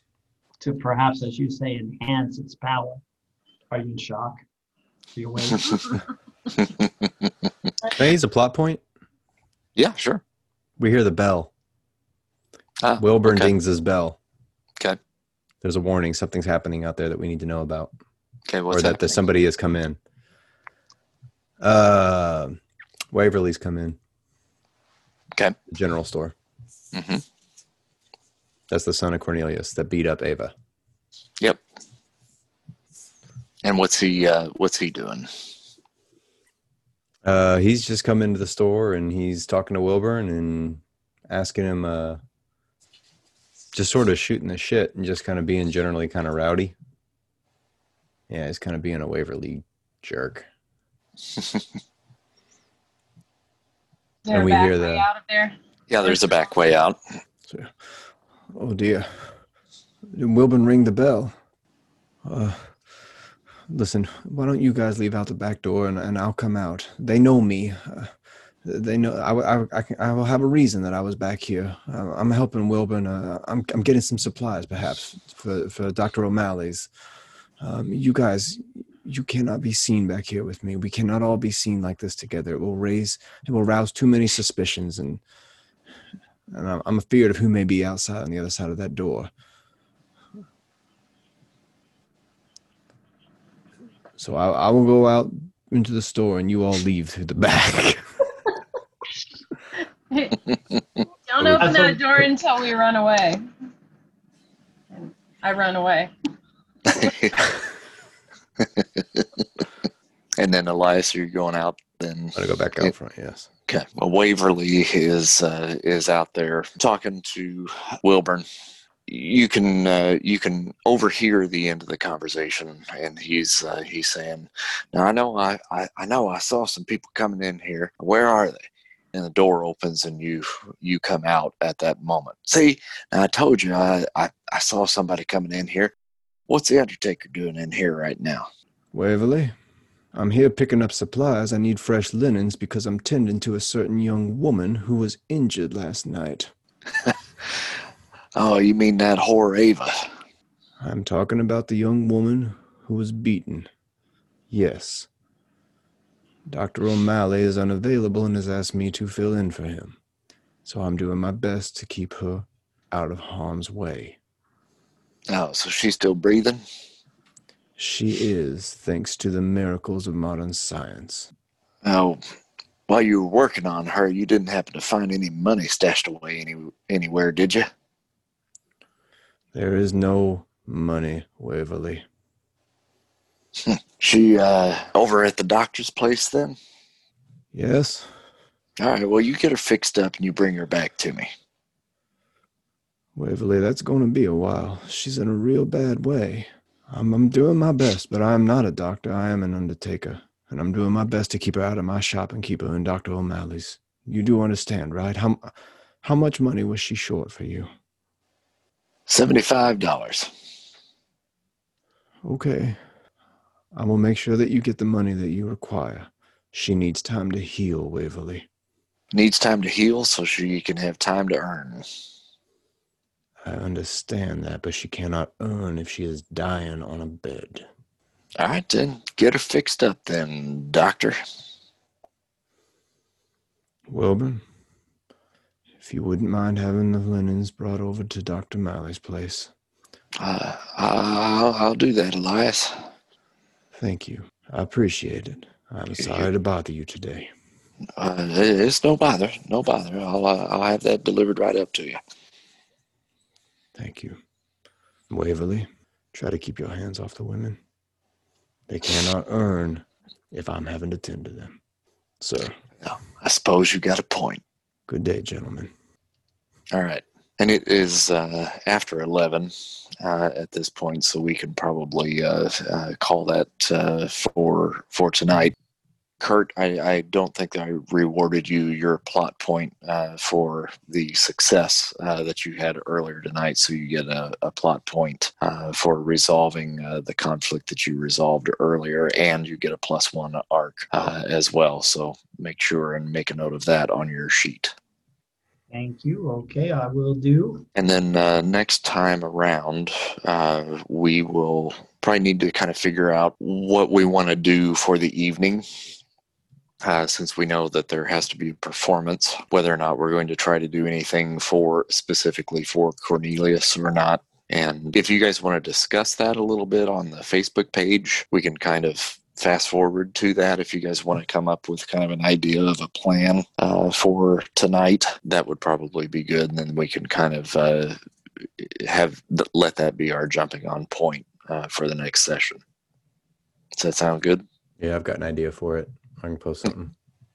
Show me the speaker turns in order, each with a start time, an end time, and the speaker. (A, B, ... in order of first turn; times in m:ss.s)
0:00.6-0:03.0 A
0:03.7-0:04.4 A
0:05.1-0:06.0 A
0:06.6-0:07.1 B
0:07.9-0:08.8 C
0:09.8-0:10.2 B
0:10.8-0:11.5 C
0:12.8-0:13.5 B
0:13.0-0:14.2 C
0:15.6-0:17.9 C
0:18.5-0:19.2 B
0:18.7-0:20.0 C
0:21.6-0:22.6 C
0:23.1-0:24.0 C
0:25.7-0:26.3 C
0:26.9-0:27.2 B
0:28.7-0:30.5 C
0:33.6-0:35.3 B
0:37.2-0:42.2 C
0:43.7-0:46.7 C
0:48.3-0:50.5 C
0:54.2-0:56.3 D
0:54.3-0:55.0 C
0:55.9-0:57.0 B
0:57.4-0:57.7 C
0:58.5-0:59.4 C
1:00.1-1:01.3 C
1:02.2-1:02.7 C
1:03.7-1:16.9 C
1:17.6-1:25.2 C
1:26.5-1:29.3 C
1:34.2-1:38.1 C
1:40.1-1:40.5 D
1:41.2-1:43.4 D
1:41.4-1:42.0 C
1:41.6-1:42.0 A
1:44.9-1:46.1 D
1:46.9-1:47.5 B
1:48.6-1:49.4 B
1:50.4-1:52.9 B
1:52.3-1:53.5 C
1:53.7-1:58.4 B
1:59.1-2:08.6 B
2:09.1-2:15.9 B
2:16.5-2:18.5 B
2:18.9-2:19.5 C
2:20.1-2:26.5 C
2:28.4-2:30.1 B
2:30.8-2:33.7 C
2:34.5-2:35.1 C
2:36.5-2:40.0 C
2:40.6-2:44.2 C
2:45.3-2:46.6 B
2:47.8-2:51.3 C
2:51.8-2:52.2 B
2:52.9-2:57.7 B
2:59.5-3:02.0 C
3:03.6-3:06.6 B
3:07.5-3:08.1 C
3:08.8-3:11.3 B
3:13.1-3:27.7 C
3:29.1-3:30.3 B
3:32.2-3:32.8 C
3:33.7-3:38.5 C
3:39.1-3:41.8 B
3:43.4-3:47.7 C
3:48.4-3:51.2 B
3:53.9-3:54.4 C
3:55.8-3:59.5 C
4:00.2-4:02.9 B
4:03.7-4:07.3 C
4:08.0-4:12.0 B
4:13.8-4:14.2 C
4:15.1-4:17.6 C
4:18.7-4:21.6 C
4:22.2-4:22.5 C
4:22.8-4:24.4 B
4:24.9-4:25.7 C
4:26.7-4:35.5 B
4:36.2-4:54.7 B
4:55.7-4:57.6 A
4:57.7-5:05.6 B
5:06.8-5:28.0 B
5:28.6-5:32.6 B
5:33.7-5:34.4 B
5:34.8-5:36.9 C